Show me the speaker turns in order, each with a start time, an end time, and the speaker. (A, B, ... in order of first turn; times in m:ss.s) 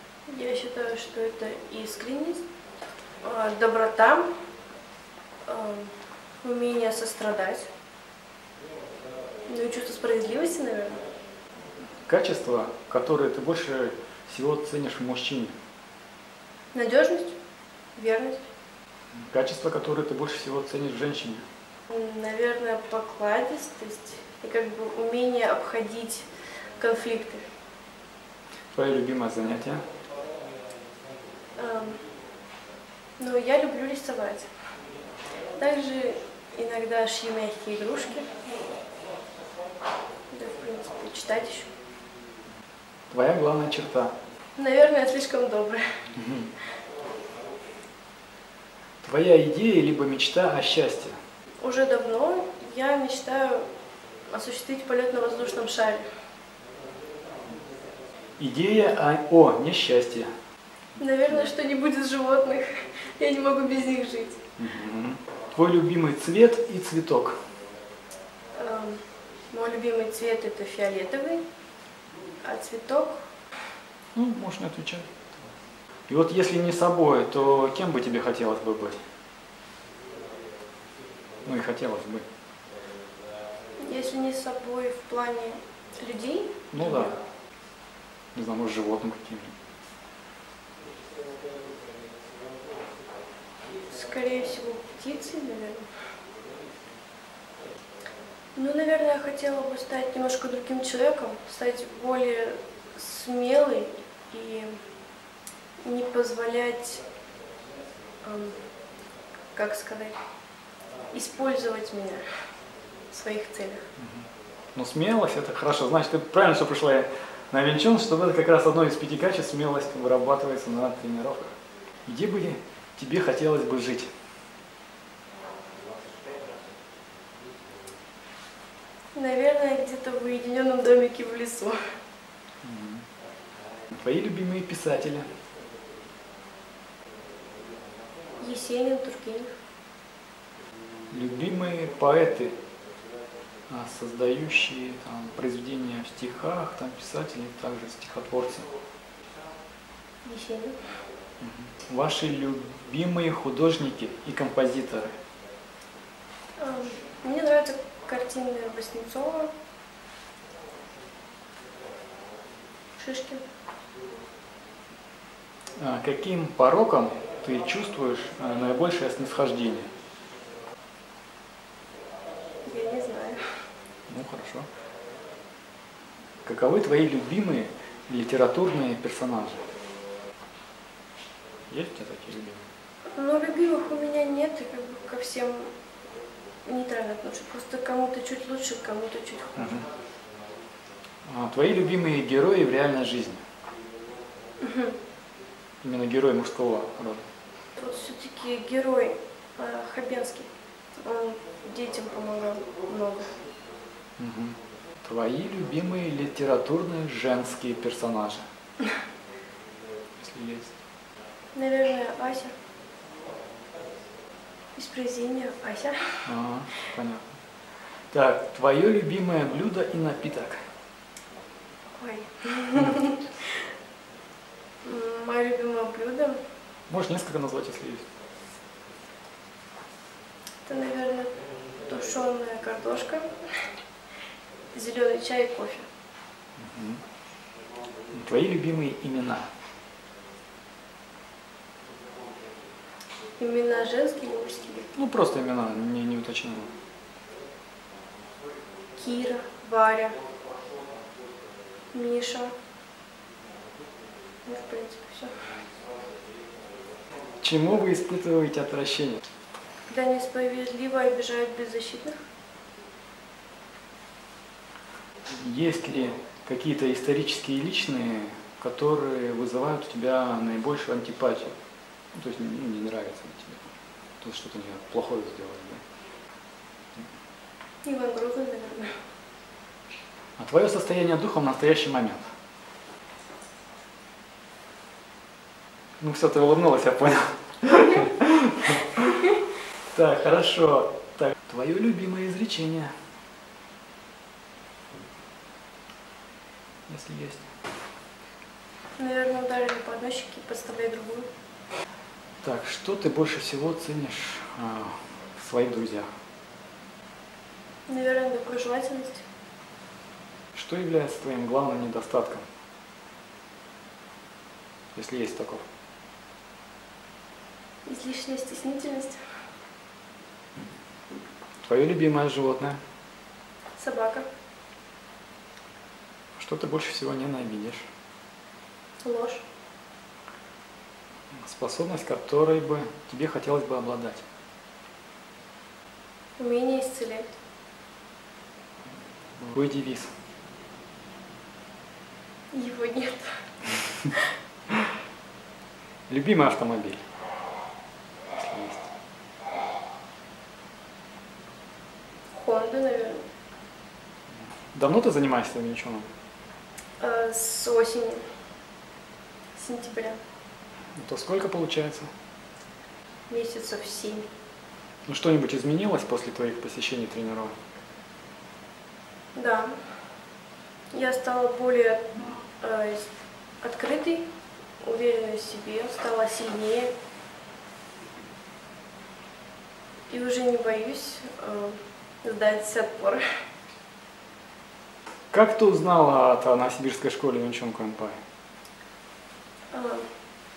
0:00.3-0:02.4 A
0:03.2-0:04.3 A
0:05.4-0:07.7 A
0:09.5-0:11.0 A
0:12.1-0:15.5 B
0:16.7-0:17.3 A
0:18.0-0:18.5 A
0:19.2-0:21.4 B
0:21.9-0:27.4 A
0:28.7-0:29.8 B
0:31.6-0:32.0 A
0:33.2-0:34.5 A
0:35.5-0:38.3 A
0:40.3-0:41.7 A
0:43.1-0:44.1 B
0:44.6-0:46.0 A
0:46.2-0:46.5 B
0:49.0-0:51.2 B
0:51.6-0:53.7 A
0:54.3-0:56.1 A
0:58.4-1:00.3 B
1:01.0-1:04.4 A
1:04.6-1:07.4 B
1:08.5-1:11.4 A
1:12.4-1:13.2 A
1:14.1-1:15.1 B
1:16.1-1:19.0 B
1:21.4-1:22.2 B
1:23.8-1:27.2 A
1:26.7-1:27.2 B
1:28.3-1:29.5 B
1:33.9-1:35.8 A
1:38.5-1:44.8 A
1:45.8-1:47.0 A
1:48.2-1:48.6 A
1:49.5-1:50.2 A
1:51.1-1:52.2 A
1:53.1-1:53.8 A
1:54.0-2:01.6 B
2:02.1-2:04.1 B
2:09.1-2:11.8 A
2:12.6-2:13.1 B
2:13.9-2:15.3 B
2:18.4-2:19.5 A
2:21.1-2:22.6 B
2:23.7-2:28.7 B
2:30.2-2:30.8 A
2:31.4-2:35.1 B
2:36.6-2:39.5 A
2:43.0-2:43.4 A
2:45.8-2:49.9 B
2:52.6-2:53.4 A
2:54.1-2:54.7 B
2:56.4-2:59.6 B
3:01.7-3:02.6 B
3:03.1-3:05.7 A
3:06.6-3:09.9 A
3:09.6-3:09.8 B
3:11.2-3:13.4 B
3:14.6-3:15.0 A
3:15.8-3:17.3 B
3:17.7-3:23.3 A
3:24.2-3:28.4 B
3:30.2-3:30.7 B
3:31.5-3:32.5 A
3:34.8-3:36.2 A
3:36.2-3:37.2 B
3:38.1-3:40.6 B
3:42.0-3:43.5 A
3:44.8-3:46.4 A
3:46.9-3:48.0 B
3:50.6-3:53.3 A
3:54.7-3:55.8 A
3:56.6-3:57.0 B
3:58.1-3:59.5 B
4:03.4-4:04.9 A
4:04.9-4:06.7 B
4:09.0-4:10.2 A
4:11.9-4:12.5 A
4:14.4-4:15.3 A
4:17.4-4:19.2 B
4:19.9-4:22.2 A
4:25.3-4:31.5 B
4:32.1-4:35.8 B
4:37.8-4:38.9 A
4:40.4-4:42.3 B
4:46.0-4:49.1 B
4:49.9-4:52.9 B
4:56.9-4:57.5 B
4:59.0-5:01.3 A
5:02.4-5:06.1 B
5:07.9-5:09.2 A
5:10.5-5:12.4 B
5:14.9-5:15.6 B
5:17.8-5:19.2 A
5:21.6-5:22.8 B
5:23.8-5:24.3 A
5:26.4-5:27.8 B
5:29.0-5:29.4 A
5:31.3-5:34.2 B
5:36.4-5:37.3 A
5:39.4-5:40.1 B
5:42.5-5:43.4 A
5:46.1-5:47.0 B
5:48.3-5:48.9 B
5:52.3-5:53.2 A
5:54.7-5:56.1 B
5:57.0-5:58.2 A
5:59.5-6:00.2 A
6:01.0-6:02.1 B
6:03.3-6:04.3 A
6:05.1-6:07.6 B
6:09.3-6:09.7 A
6:10.9-6:13.1 A
6:13.6-6:14.2 A
6:14.8-6:16.9 A
6:20.1-6:23.2 A
6:25.3-6:28.2 B
6:29.7-6:30.1 A